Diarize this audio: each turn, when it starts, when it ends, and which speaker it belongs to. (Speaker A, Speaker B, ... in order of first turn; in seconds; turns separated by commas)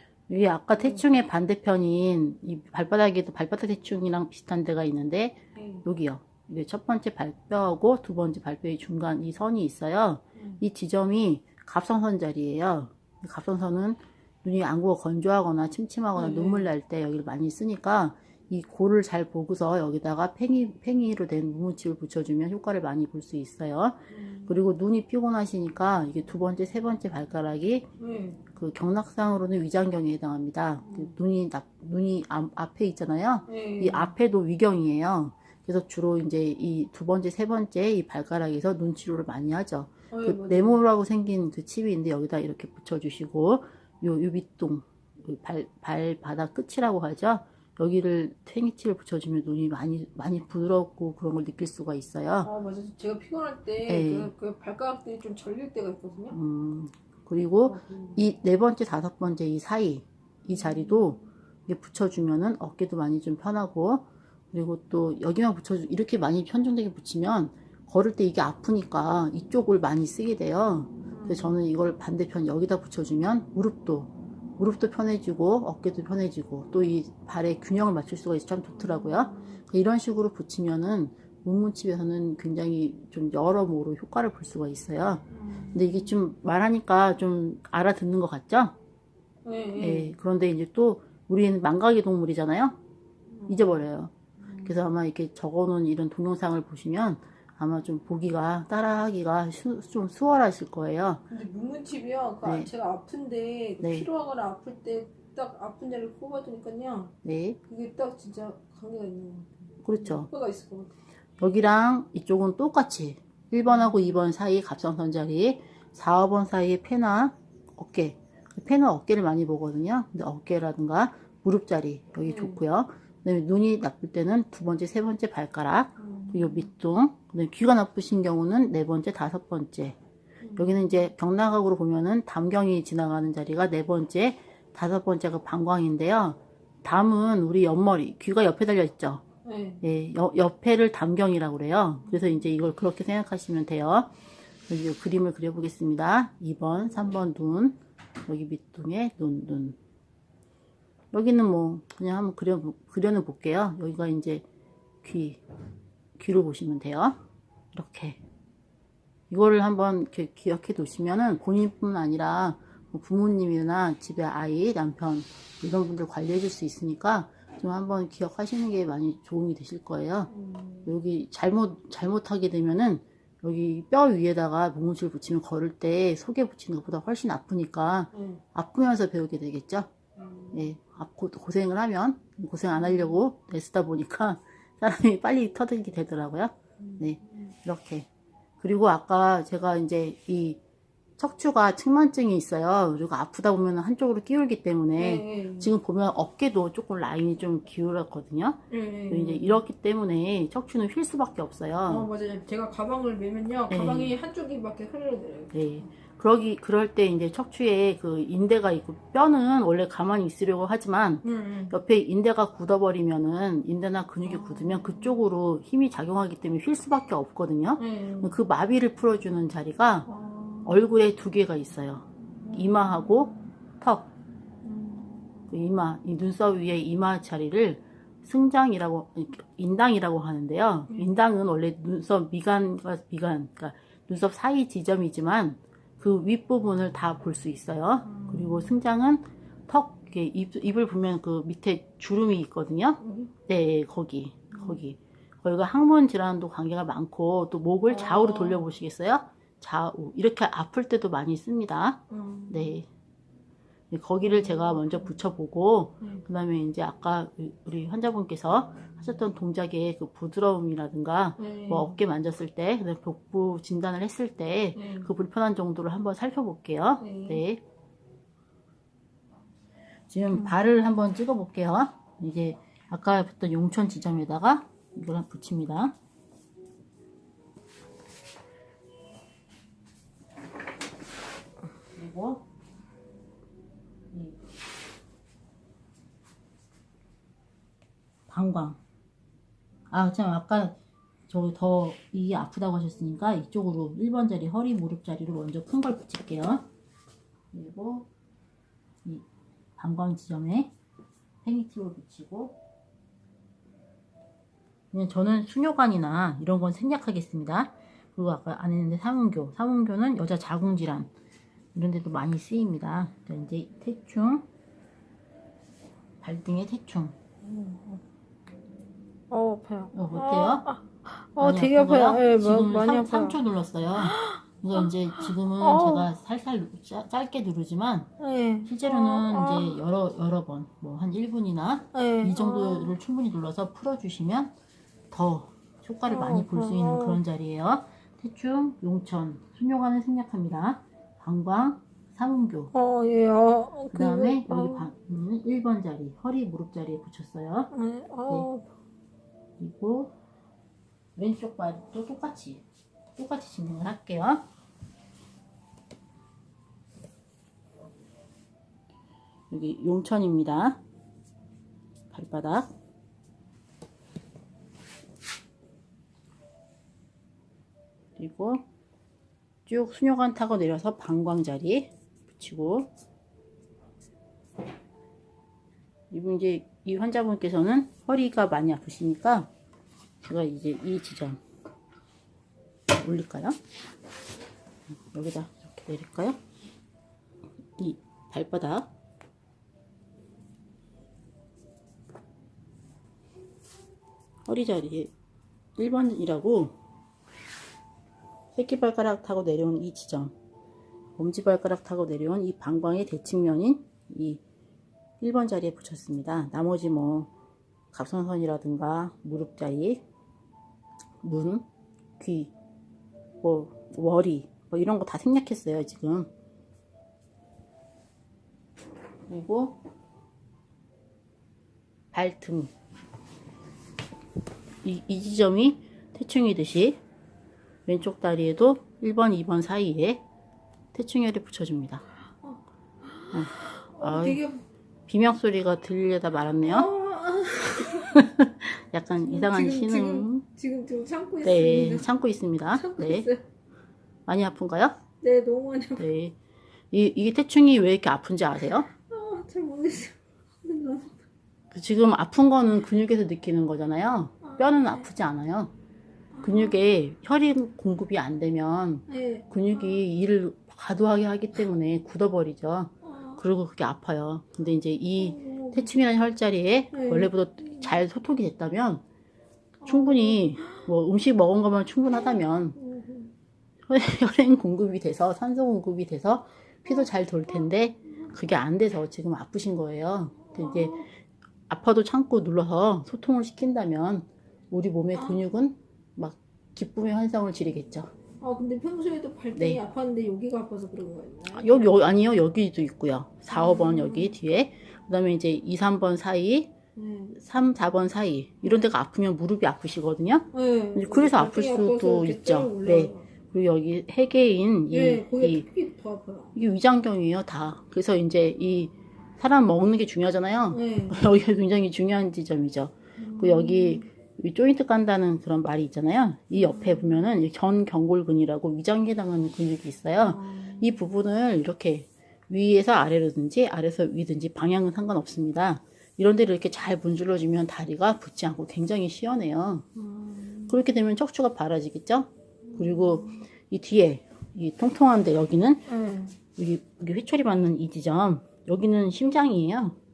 Speaker A: 0.3-27.9, Speaker B: 0.8-1.0, Speaker B: 5.6-5.8, Speaker B: 10.4-10.6, Speaker B: 16.1-16.7, Speaker B: 24.1-24.6, Speaker B: 28.0-28.4, Speaker A: 28.5-52.5, Speaker B: 30.9-31.1, Speaker B: 33.5-34.1, Speaker B: 40.1-40.8, Speaker B: 52.4-56.4, Speaker A: 53.9-54.3, Speaker A: 56.3-88.8, Speaker B: 57.6-58.2, Speaker B: 60.5-61.0, Speaker B: 71.1-71.6, Speaker B: 78.8-79.6, Speaker B: 85.3-86.1, Speaker B: 89.5-90.2, Speaker A: 89.8-92.8, Speaker B: 93.3-93.8, Speaker A: 93.5-101.2, Speaker B: 94.4-94.7, Speaker B: 101.3-107.1, Speaker A: 102.5-102.7, Speaker A: 103.8-104.1, Speaker A: 107.2-107.6, Speaker B: 107.7-110.9, Speaker A: 109.8-110.3, Speaker A: 111.4-130.0, Speaker B: 113.7-114.1, Speaker B: 122.2-122.6, Speaker B: 126.0-126.7, Speaker B: 130.4-130.8, Speaker A: 130.6-139.2, Speaker B: 139.4-139.8, Speaker A: 139.8-144.1, Speaker B: 142.1-142.4, Speaker A: 144.7-149.8, Speaker A: 151.1-154.4, Speaker A: 155.0-155.4, Speaker A: 156.2-157.2, Speaker A: 157.7-158.2, Speaker A: 159.3-170.3, Speaker B: 170.3-170.9, Speaker A: 170.9-179.9, Speaker B: 178.1-178.4, Speaker B: 180.2-180.6, Speaker A: 180.5-188.1, Speaker B: 182.8-183.2, Speaker B: 186.8-187.5, Speaker A: 188.6-190.6, Speaker A: 191.2-202.1, Speaker B: 195.0-195.7, Speaker B: 198.7-199.6, Speaker B: 201.9-205.8, Speaker A: 203.7-204.1, Speaker A: 205.5-220.1, Speaker B: 211.2-211.8, Speaker B: 214.2-215.2, Speaker B: 217.8-218.4, Speaker B: 220.1-220.9, Speaker A: 220.7-224.1, Speaker B: 222.4-223.4, Speaker B: 224.6-225.3, Speaker A: 225.5-252.9, Speaker B: 238.1-238.7, Speaker B: 243.0-243.3, Speaker B: 247.9-248.7, Speaker B: 252.1-252.8, Speaker A: 253.9-267.6, Speaker B: 254.2-255.1, Speaker B: 261.4-261.9, Speaker B: 264.8-265.1, Speaker B: 267.0-267.4, Speaker A: 270.1-275.9, Speaker A: 281.9-282.4, Speaker A: 284.1-284.4, Speaker A: 288.3-288.8, Speaker A: 289.9-290.8, Speaker A: 291.3-296.7, Speaker A: 297.5-298.1, Speaker A: 299.8-300.7, Speaker A: 301.4-302.6, Speaker A: 304.9-311.1, Speaker A: 311.8-314.5, Speaker A: 316.2-317.1, Speaker B: 317.4-318.0, Speaker B: 319.3-323.4, Speaker A: 319.9-320.7, Speaker A: 321.4-328.1, Speaker B: 324.0-326.1, Speaker B: 328.2-329.8, Speaker A: 328.7-334.5, Speaker B: 331.9-332.9, Speaker A: 335.1-342.7, Speaker B: 336.1-337.2, Speaker B: 342.7-344.9, Speaker A: 343.9-347.7, Speaker B: 347.7-348.7, Speaker A: 349.6-350.1, Speaker A: 351.2-352.6, Speaker A: 353.2-354.5, Speaker A: 359.5-360.8, Speaker A: 362.1-362.7, Speaker A: 368.2-368.6, Speaker A: 369.7-372.9, Speaker A: 376.1-379.5, Speaker A: 380.2-381.4, Speaker A: 382.9-383.6, Speaker A: 385.1-386.4, Speaker A: 387.8-388.9, Speaker A: 394.5-395.1, Speaker A: 395.8-396.8, Speaker A: 398.6-400.3, Speaker A: 401.2-404.4, Speaker A: 405.2-407.3, Speaker A: 407.9-410.0, Speaker A: 411.2-411.7, Speaker A: 412.2-412.5, Speaker A: 413.4-416.3, Speaker A: 419.3-419.8, Speaker A: 422.1-422.7, Speaker A: 424.8-427.0, Speaker A: 427.9-430.2, Speaker A: 430.9-432.1, Speaker B: 432.4-434.6, Speaker A: 433.3-434.4, Speaker A: 435.1-436.9, Speaker B: 436.6-438.3, Speaker A: 437.9-440.4, Speaker B: 439.2-442.1, Speaker A: 441.4-443.3, Speaker B: 442.7-443.4, Speaker A: 444.3-445.0, Speaker B: 445.2-446.1, Speaker A: 446.0-446.4, Speaker A: 446.9-448.9, Speaker B: 449.0-451.2, Speaker A: 451.7-455.7, Speaker B: 454.4-455.1, Speaker B: 456.3-456.8, Speaker A: 456.4-469.0, Speaker B: 459.1-460.0, Speaker B: 463.1-463.4, Speaker B: 465.2-465.9, Speaker B: 466.9-467.3, Speaker B: 469.8-470.9, Speaker A: 469.9-472.8, Speaker B: 472.3-473.3, Speaker A: 473.9-481.1, Speaker B: 480.5-481.1, Speaker A: 481.7-488.1, Speaker B: 485.1-485.4, Speaker B: 488.4-491.9, Speaker A: 489.6-489.8, Speaker A: 491.5-496.7, Speaker B: 493.5-494.4, Speaker B: 496.9-497.4, Speaker A: 497.4-505.6, Speaker B: 500.5-503.3, Speaker B: 504.9-506.5, Speaker A: 506.6-529.9, Speaker B: 510.7-511.2, Speaker B: 513.2-514.1, Speaker B: 516.5-517.2, Speaker B: 520.2-521.0, Speaker B: 530.0-530.8, Speaker A: 530.7-535.9, Speaker B: 532.7-533.4, Speaker B: 535.9-536.4, Speaker A: 536.5-540.0